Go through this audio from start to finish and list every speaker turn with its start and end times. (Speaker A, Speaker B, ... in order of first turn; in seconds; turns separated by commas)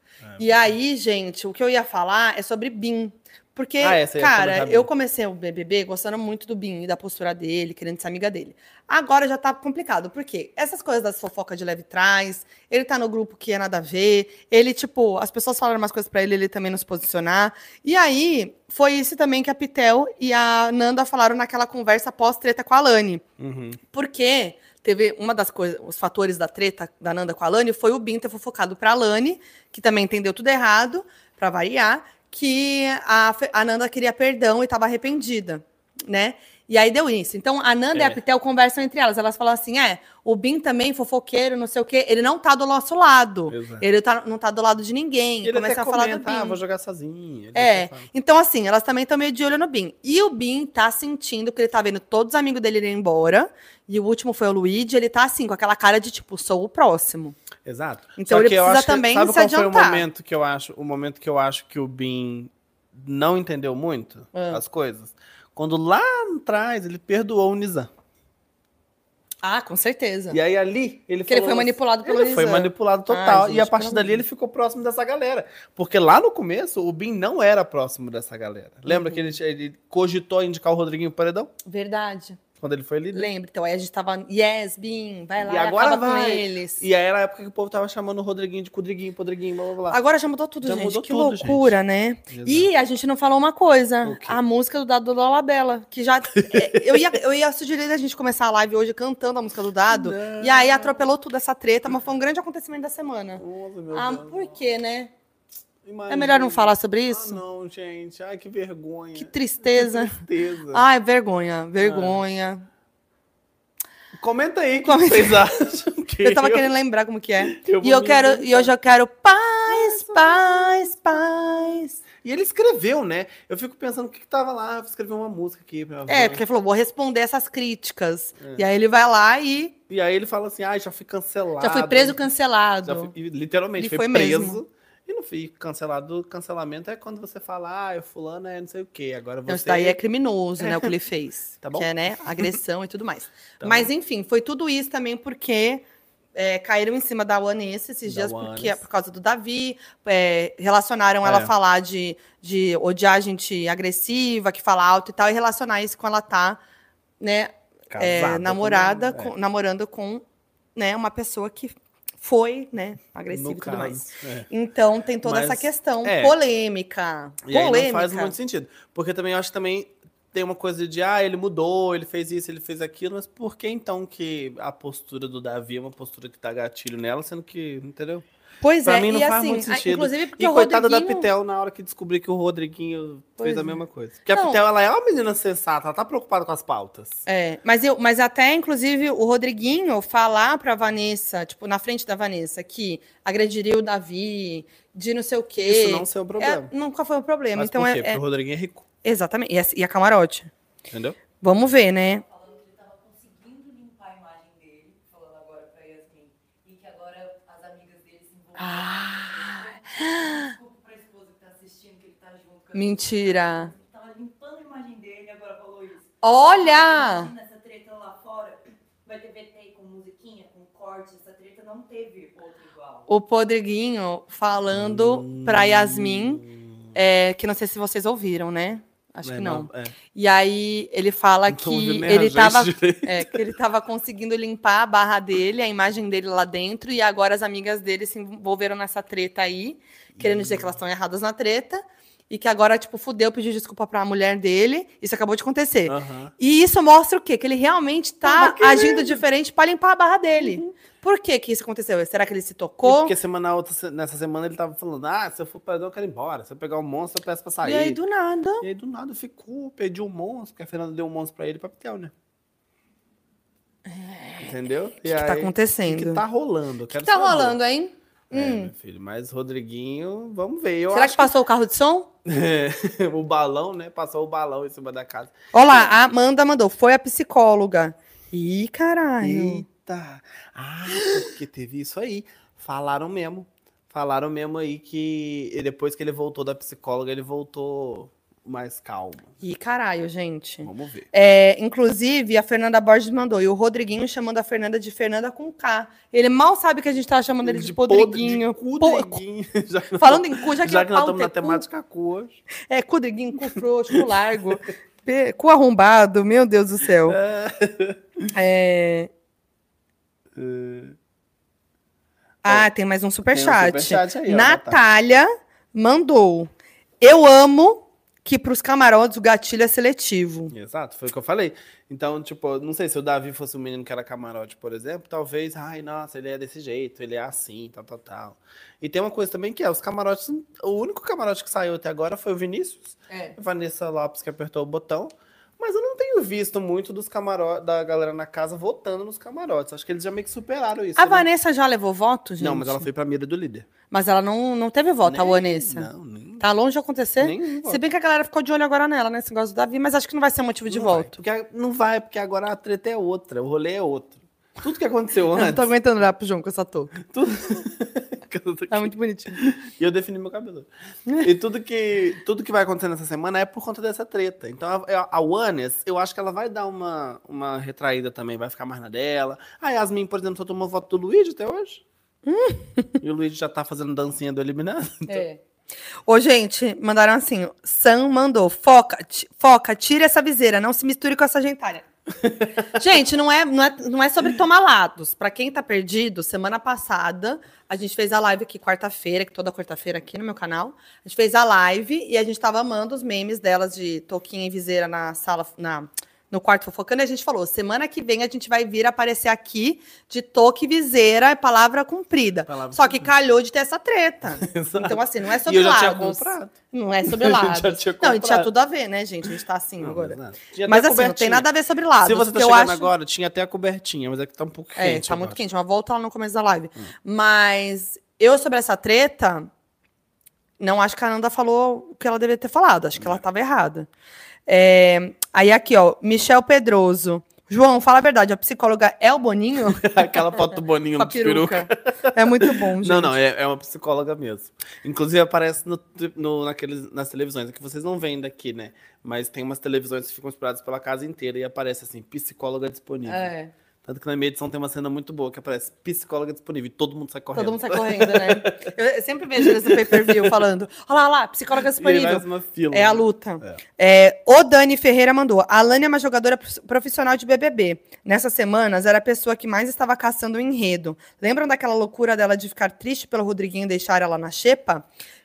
Speaker A: 0.2-0.7, Speaker B: 0.4-23.2, Speaker A: 3.8-4.9, Speaker A: 23.4-23.8, Speaker B: 23.9-46.6, Speaker A: 37.9-38.2, Speaker A: 43.5-43.8, Speaker A: 45.4-48.1, Speaker B: 47.5-57.4, Speaker A: 57.6-67.9, Speaker B: 58.2-60.1, Speaker B: 64.3-64.6, Speaker B: 69.4-70.4, Speaker A: 70.3-81.5, Speaker B: 71.3-74.2, Speaker B: 78.9-79.3, Speaker B: 81.7-82.4, Speaker A: 82.6-83.3, Speaker B: 83.1-86.8, Speaker A: 85.4-90.0, Speaker B: 89.9-105.1, Speaker A: 90.6-91.8, Speaker A: 92.3-92.7, Speaker A: 94.0-94.4, Speaker A: 96.4-97.1, Speaker A: 99.9-101.0, Speaker A: 103.4-104.5, Speaker A: 105.8-110.8, Speaker B: 106.1-107.4, Speaker B: 109.2-110.2, Speaker B: 110.7-112.7, Speaker A: 111.8-112.2, Speaker A: 114.2-116.7, Speaker B: 114.8-115.5, Speaker B: 116.2-122.0, Speaker A: 117.4-118.7, Speaker A: 119.7-126.4, Speaker B: 126.1-129.7, Speaker A: 129.9-132.2, Speaker B: 131.6-133.1, Speaker A: 132.8-140.0, Speaker B: 133.8-134.6, Speaker B: 139.5-156.6, Speaker A: 140.6-140.9, Speaker A: 141.6-141.9, Speaker A: 143.6-143.9, Speaker A: 148.1-148.8, Speaker A: 151.2-151.5, Speaker B: 157.2-160.2, Speaker A: 157.9-159.3, Speaker B: 160.8-168.3, Speaker A: 163.3-164.5, Speaker A: 165.2-166.3, Speaker A: 167.4-178.2, Speaker B: 178.6-181.3, Speaker A: 178.8-187.2, Speaker B: 183.4-184.6, Speaker B: 187.3-198.2, Speaker A: 195.6-196.7, Speaker A: 197.5-198.8, Speaker B: 199.0-200.5, Speaker A: 200.9-201.2, Speaker B: 201.4-202.2, Speaker C: 202.2-223.1, Speaker B: 208.6-210.6, Speaker B: 212.7-213.7, Speaker B: 216.2-217.3, Speaker B: 223.1-226.4, Speaker A: 224.7-226.9, Speaker B: 226.9-253.2, Speaker A: 229.2-229.9, Speaker A: 231.5-233.4, Speaker A: 240.2-240.8, Speaker A: 245.9-246.3, Speaker A: 248.2-249.2, Speaker A: 250.3-250.8, Speaker A: 252.8-258.0, Speaker B: 257.6-258.6, Speaker A: 258.6-262.1, Speaker B: 263.9-264.5, Speaker A: 264.4-267.6, Speaker B: 265.0-266.2, Speaker B: 267.0-268.7, Speaker A: 268.3-271.3, Speaker B: 270.9-272.1, Speaker A: 272.2-275.9, Speaker B: 275.5-279.6, Speaker A: 279.2-289.3, Speaker B: 289.4-299.2, Speaker A: 290.6-291.1, Speaker A: 297.4-302.4, Speaker B: 300.0-301.6, Speaker B: 302.7-307.2, Speaker A: 307.1-308.2, Speaker B: 308.3-309.1, Speaker A: 310.4-310.9, Speaker B: 312.4-316.5, Speaker A: 313.3-314.8, Speaker B: 317.0-320.5, Speaker A: 320.5-341.3, Speaker B: 333.1-333.4, Speaker B: 341.0-342.9, Speaker A: 342.4-343.7, Speaker B: 343.9-351.1, Speaker A: 345.0-346.4, Speaker A: 347.2-347.8, Speaker A: 350.7-355.7, Speaker B: 355.3-357.0, Speaker A: 357.0-360.7, Speaker B: 358.7-359.4, Speaker A: 361.2-371.8, Speaker B: 372.3-373.0, Speaker A: 373.0-375.2, Speaker B: 375.1-375.4, Speaker B: 376.1-381.9, Speaker A: 382.2-382.6, Speaker B: 382.7-412.9, Speaker A: 402.5-403.1, Speaker A: 404.4-406.5, Speaker A: 407.1-408.5, Speaker A: 409.8-411.5, Speaker A: 412.0-415.4, Speaker B: 414.8-419.5, Speaker B: 420.6-423.9, Speaker B: 424.5-433.2, Speaker A: 429.6-443.3, Speaker B: 443.1-443.5, Speaker A: 443.8-448.7, Speaker B: 447.3-464.9, Speaker A: 449.4-450.4, Speaker A: 451.7-453.6